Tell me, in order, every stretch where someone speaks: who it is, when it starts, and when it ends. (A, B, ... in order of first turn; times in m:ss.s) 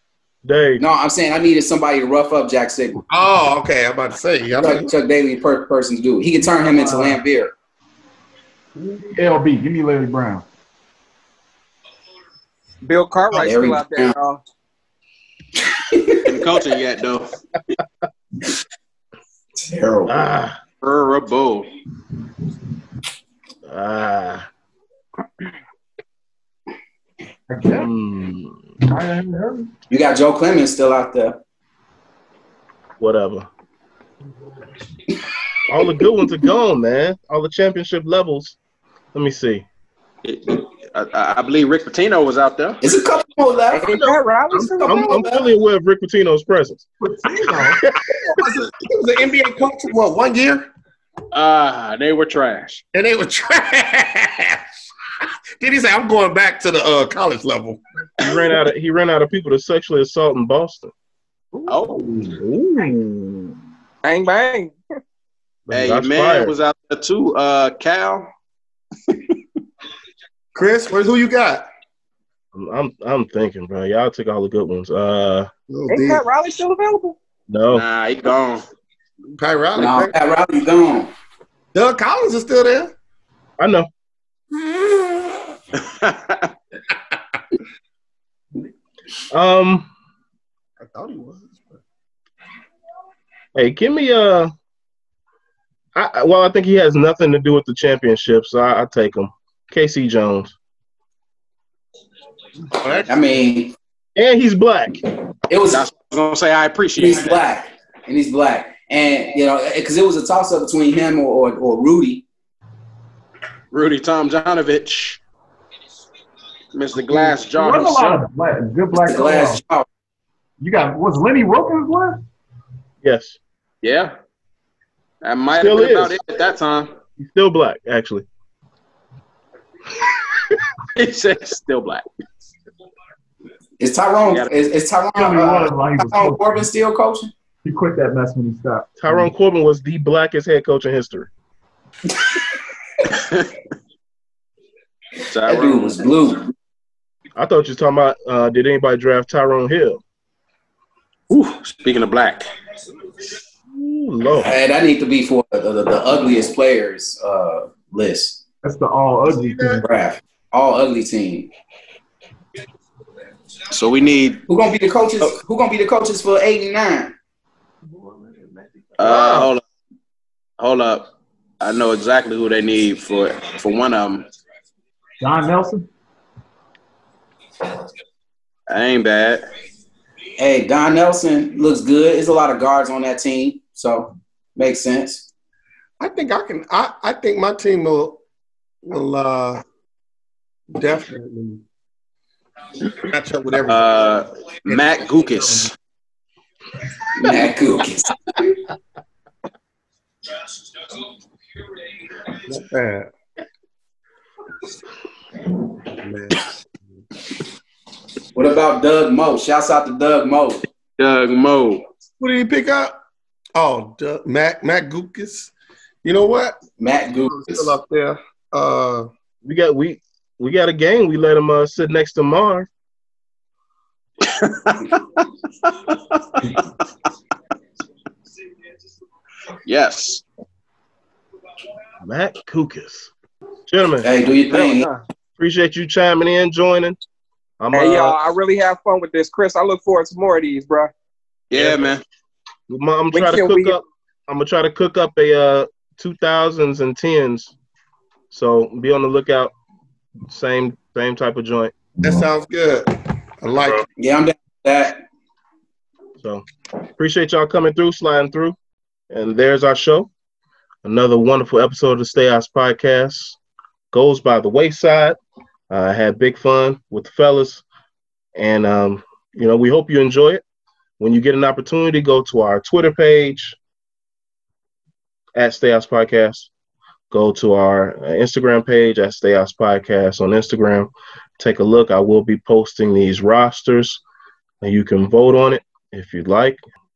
0:00.4-0:00.8 A
0:00.8-0:03.0 B
0:03.1-0:04.9 C
0:04.6-0:07.5 B
0:06.4-0:07.2 D
0:09.1-0:10.4 D
0:12.8-0:14.4 E
0:13.3-0:14.2 B
0:15.8-0:16.3 B
0:16.2-0:17.3 F
0:19.6-0:20.2 B
0:20.1-0:20.6 A
0:20.8-0:21.7 F
0:23.7-0:24.5 A
0:27.5-0:27.9 D
0:27.7-0:28.6 A
0:28.8-0:29.7 D
0:29.9-0:31.4 B
0:33.0-0:33.5 A
0:35.7-0:38.6 A
0:39.1-0:39.7 A
0:40.2-0:42.8 F
0:42.8-0:44.0 B
0:43.7-0:45.4 E
0:43.9-0:46.8 A
0:44.8-0:45.3 B
0:47.0-0:50.7 C
0:47.4-0:48.2 A
0:51.3-0:52.8 F
0:52.9-0:54.7 C
0:55.6-0:58.2 C
0:58.2-1:00.9 A
1:01.5-1:02.4 D
1:01.7-1:02.1 F
1:02.4-1:03.5 A
1:04.0-1:04.8 E
1:05.7-1:06.5 A
1:05.7-1:08.3 F
1:10.6-1:11.6 C
1:12.5-1:15.5 A
1:15.7-1:16.2 C
1:15.9-1:17.2 E
1:17.5-1:17.8 A
1:17.7-1:18.6 F
1:19.4-1:20.2 C
1:19.8-1:21.1 B
1:21.7-1:22.9 C
1:23.6-1:23.9 A
1:24.5-1:25.5 C
1:25.8-1:26.5 F
1:29.3-1:29.9 A
1:30.8-1:31.8 C
1:33.6-1:34.5 A
1:36.0-1:40.5 A
1:42.8-1:43.1 C
1:43.1-1:43.8 B
1:44.2-1:45.0 A
1:45.5-1:45.8 B
1:45.6-1:47.4 F
1:47.0-1:52.2 B
1:53.7-1:55.2 F
1:56.7-1:58.2 F
1:57.1-1:59.6 D
1:58.9-1:59.9 B
2:00.6-2:02.2 D
2:03.0-2:03.4 A
2:03.8-2:04.1 F
2:05.2-2:06.9 F
2:05.5-2:06.2 A
2:07.2-2:08.3 A
2:11.0-2:12.0 F
2:13.8-2:17.3 B
2:14.3-2:14.5 F
2:15.2-2:16.6 D
2:17.6-2:19.3 D
2:19.0-2:21.3 A
2:23.1-2:23.5 F
2:25.3-2:26.2 F
2:25.5-2:26.5 B
2:27.4-2:30.0 A
2:31.3-2:32.5 F
2:33.7-2:34.5 A
2:34.4-2:38.4 B
2:38.6-2:39.8 D
2:39.3-2:39.8 C
2:39.8-2:41.5 B
2:43.7-2:44.4 F
2:44.5-2:47.1 B
2:48.0-2:48.8 C
2:49.0-2:49.6 F
2:49.1-2:49.5 A
2:50.6-2:54.3 F
2:55.2-2:55.9 D
2:58.7-2:59.5 F
3:00.4-3:05.3 B
3:06.0-3:08.2 C
3:08.8-3:09.6 C
3:10.8-3:11.6 C
3:13.0-3:14.1 C
3:13.7-3:15.7 F
3:14.7-3:15.7 C
3:17.2-3:18.4 B
3:22.4-3:23.1 C
3:25.9-3:26.4 C
3:28.3-3:30.6 B
3:31.0-3:31.8 F
3:32.2-3:33.0 C
3:33.6-3:35.5 C
3:36.0-3:36.6 C
3:36.8-3:37.7 B
3:37.2-3:39.1 C
3:39.4-3:42.7 A
3:44.2-3:46.5 F
3:49.7-3:50.2 F
3:52.0-3:53.1 A
3:53.7-3:54.1 A
3:54.0-3:54.9 B
3:54.5-3:55.0 E
3:55.4-3:57.0 A
3:57.6-3:58.2 A
3:57.7-4:00.9 E
4:01.5-4:02.0 F
4:01.5-4:01.9 A
4:02.7-4:07.5 A
4:03.1-4:03.8 E
4:08.3-4:09.5 A
4:10.3-4:11.7 A
4:12.0-4:12.9 C
4:13.4-4:13.8 C
4:14.0-4:15.0 B
4:16.2-4:16.5 A
4:17.0-4:18.6 A
4:19.1-4:20.1 A
4:20.8-4:23.4 A
4:23.9-4:25.2 A
4:25.7-4:27.6 A
4:28.4-4:30.4 A
4:31.0-4:33.6 A
4:35.4-4:36.5 A
4:37.1-4:44.0 A
4:44.6-4:46.6 A